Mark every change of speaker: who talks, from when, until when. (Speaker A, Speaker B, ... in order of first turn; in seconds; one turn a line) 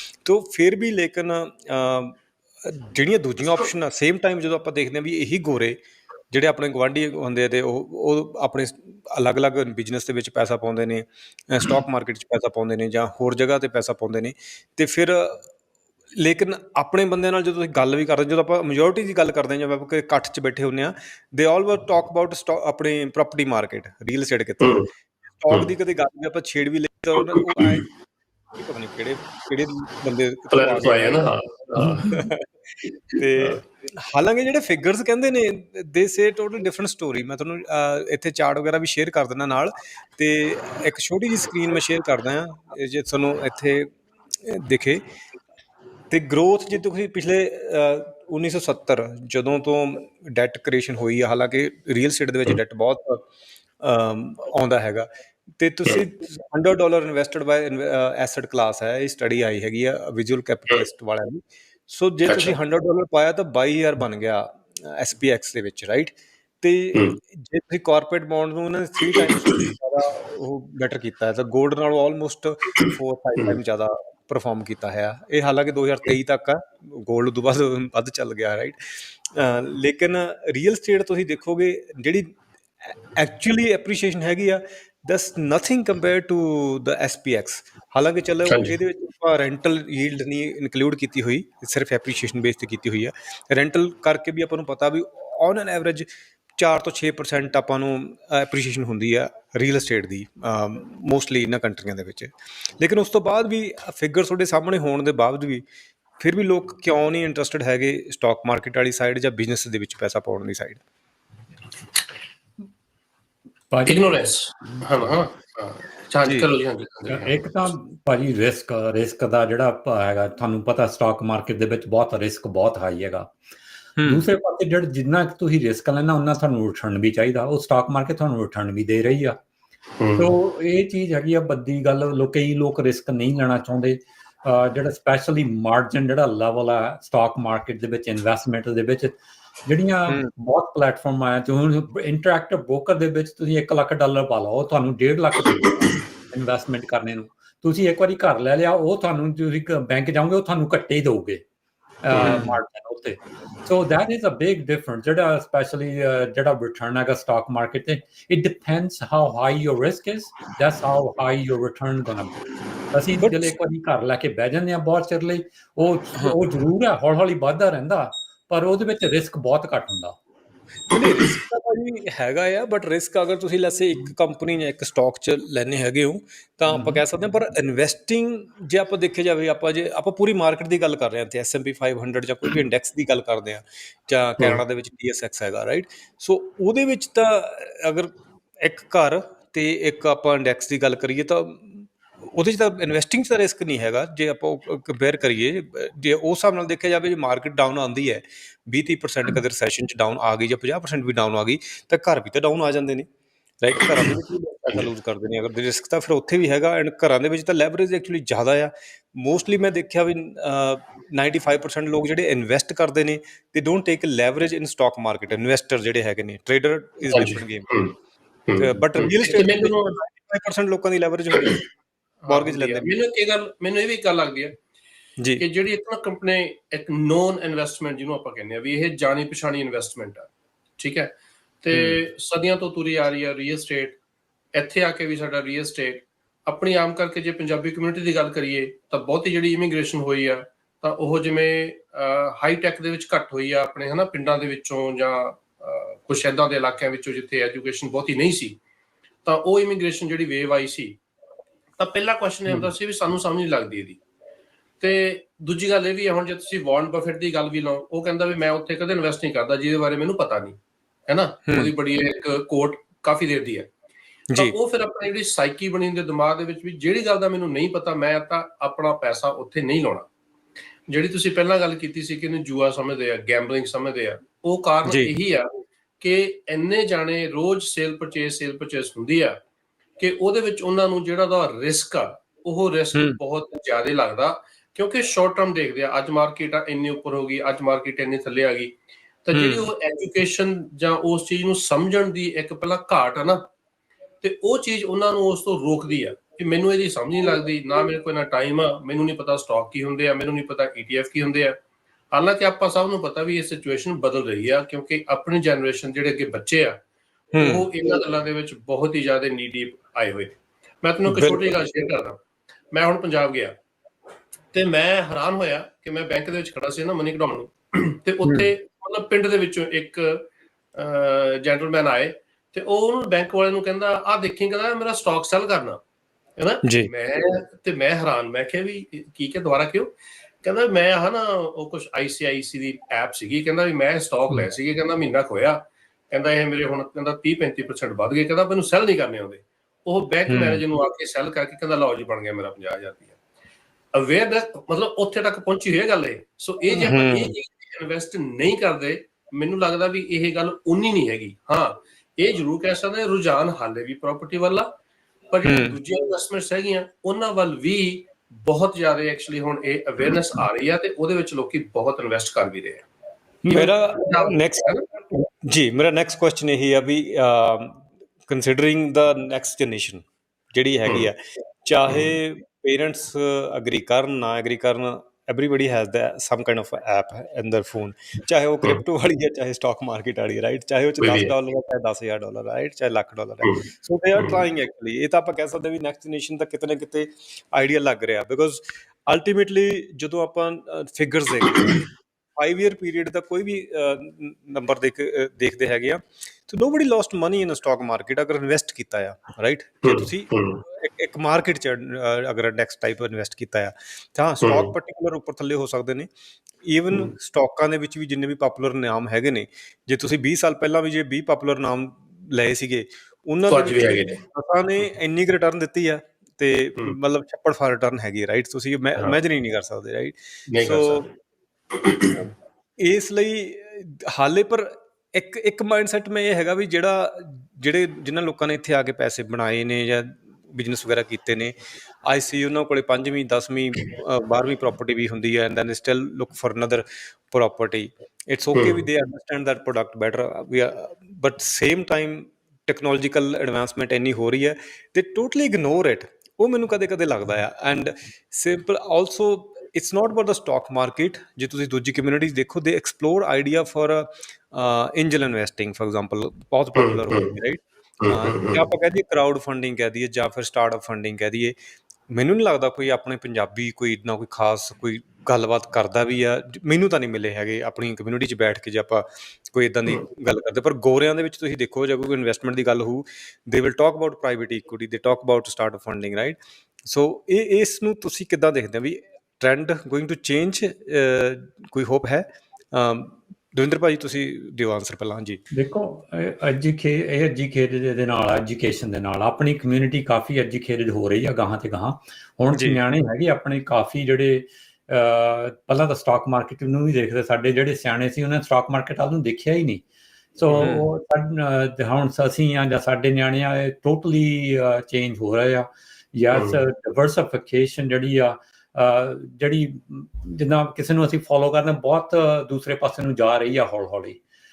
Speaker A: 0.2-5.8
Speaker A: 6.3-15.4
Speaker A: 16.2-24.8
Speaker B: 24.6-24.9
Speaker A: 25.3-27.9
Speaker A: 28.6-31.3
Speaker B: 30.5-32.0
Speaker C: 31.8-32.2
Speaker A: 32.1-32.5
Speaker B: 33.1-33.6
Speaker A: 33.2-43.9
Speaker A: 44.4-45.0
Speaker A: 46.1-53.2
Speaker A: 53.8-78.8
Speaker B: 62.3-62.5
Speaker B: 69.1-69.7
Speaker B: 72.8-73.5
Speaker A: 79.3-96.0
Speaker B: 88.5-88.7
Speaker A: 96.6-105.6
Speaker A: 106.2-110.8
Speaker C: 113.7-114.1
Speaker B: 113.8-117.7
Speaker C: 117.1-123.3
Speaker A: 124.0-124.2
Speaker C: 124.0-129.3
Speaker B: 130.0-130.3
Speaker C: 130.1-151.4
Speaker C: 152.0-170.2
Speaker A: 152.2-152.6
Speaker A: 163.2-163.5
Speaker A: 170.9-203.1
Speaker A: 203.6-217.7
Speaker B: 217.1-217.9
Speaker B: 218.5-219.9
Speaker A: 218.6-221.6
Speaker B: 222.2-224.6
Speaker A: 222.3-222.9
Speaker B: 225.4-230.3
Speaker B: 230.8-234.0
Speaker A: 231.7-232.0
Speaker B: 234.6-248.6
Speaker B: 249.2-251.0
Speaker B: 251.8-254.0
Speaker B: 254.8-263.7
Speaker A: 261.5-261.7
Speaker B: 264.4-270.1
Speaker B: 270.9-275.5
Speaker A: 274.9-275.1
Speaker B: 276.0-279.4
Speaker B: 280.0-293.4
Speaker A: 289.3-289.7
Speaker B: 294.2-301.6
Speaker B: 302.1-306.8
Speaker A: 307.3-307.6
Speaker B: 307.4-312.2
Speaker A: 311.1-311.5
Speaker B: 312.7-313.5
Speaker B: 314.5-325.8
Speaker A: 318.2-318.5
Speaker B: 326.4-343.1
Speaker A: 326.6-326.9
Speaker A: 340.3-340.6
Speaker B: 343.9-354.7
Speaker A: 346.9-347.3
Speaker B: 355.3-362.9
Speaker A: 355.4-355.8
Speaker A: 363.4-391.8
Speaker B: 363.5-364.8
Speaker B: 381.0-381.3
Speaker A: 392.4-406.1
Speaker B: 399.8-400.6
Speaker B: 404.4-404.7
Speaker A: 406.6-421.1
Speaker B: 413.5-414.2
Speaker B: 420.5-421.1
Speaker B: 421.7-422.2
Speaker A: 422.8-431.5
Speaker A: 432.1-461.5
Speaker B: 456.8-457.3
Speaker B: 458.0-458.6
Speaker A: 462.1-476.4
Speaker A: 476.9-485.4
Speaker C: 485.5-499.8
Speaker A: 492.5-492.8
Speaker C: 500.4-514.2
Speaker A: 500.6-500.9
Speaker B: 506.3-506.6